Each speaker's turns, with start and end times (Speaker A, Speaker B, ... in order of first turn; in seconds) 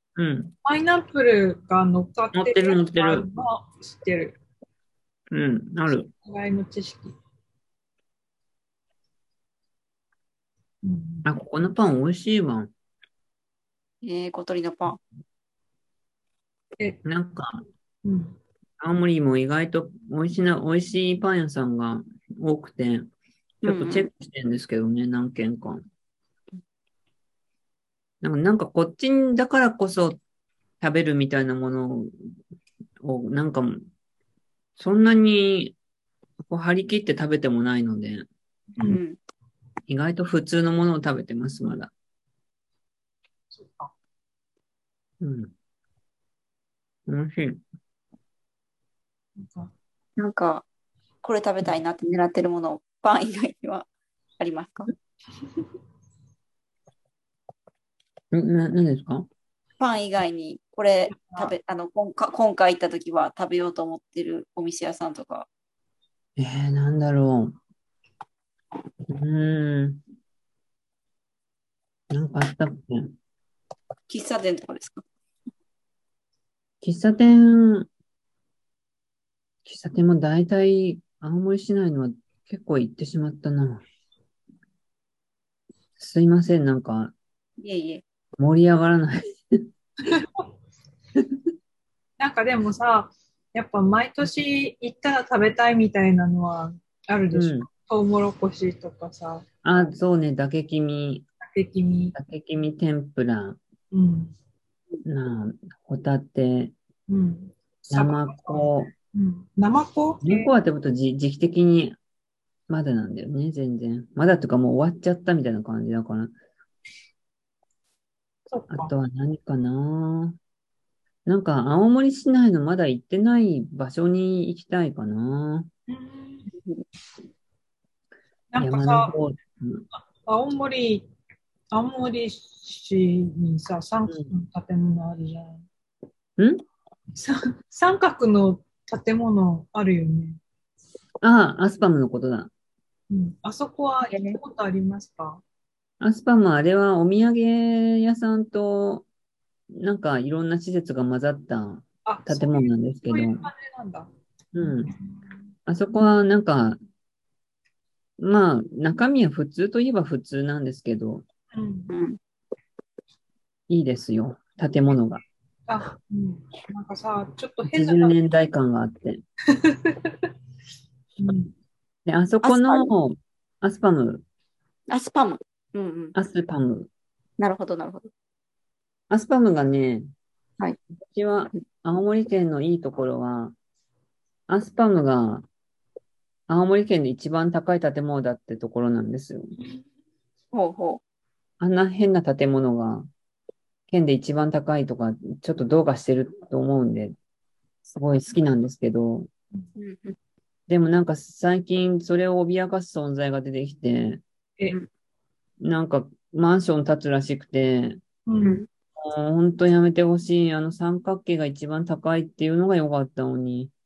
Speaker A: 0.2-0.5, 2.3-3.2, 5.3-6.1, 11.2-12.7, 17.0-17.6, 18.8-23.1, 23.6-25.8, 28.2-30.2, 30.8-32.1, 33.0-33.8, 34.8-35.8, 36.5-38.2, 39.9-41.9, 45.2-45.5, 47.1-47.6, 58.3-59.2, 66.4-67.5, 69.1-70.0, 72.1-73.1, 76.8-77.9, 79.6-83.8, 86.0-87.1, 88.4-89.6, 97.3-97.7, 99.6-101.2, 102.1-103.6, 105.0-106.7, 107.9-108.9, 110.2-112.0, 112.7-116.3, 118.7-120.3, 121.2-125.7, 128.6-129.8, 141.2-142.5, 146.0-149.1, 149.7-153.5, 154.5-154.9, 155.7-156.8, 158.2-161.2, 163.7-165.2, 167.6-169.2, 172.1-174.2, 176.1-176.9, 179.1-180.1, 181.0-183.5, 184.5-185.4, 186.5-189.5, 191.6-193.1, 193.9-197.2, 197.9-199.3, 200.7-204.2, 205.6-208.0, 209.0-213.7
Speaker B: 0.6-4.4, 6.1-7.1, 10.8-11.3, 18.0-18.4, 43.5-43.9, 49.4-49.7, 61.1-61.5, 90.0-90.4, 92.2-99.5, 101.4-102.1, 103.9-104.3, 107.1-110.5, 118.5-118.9, 125.9-126.5, 128.5-129.1, 130.2-131.1, 131.7-135.6, 137.1-140.4, 143.1-145.4, 152.1-154.1, 154.9-155.2, 161.5-161.9, 165.7-168.2, 169.5-170.1, 171.2-171.5, 208.3-208.6
Speaker C: 14.0-15.0, 23.6-24.1, 38.8-39.2, 50.2-50.6, 51.2-53.9, 54.4-54.9, 59.8-65.5, 74.1-75.0, 87.6-88.0, 144.1-144.4, 161.9-162.2, 172.4-172.9, 174.9-176.1, 177.4-178.1, 190.5-191.0, 199.8-200.2, 208.4-208.7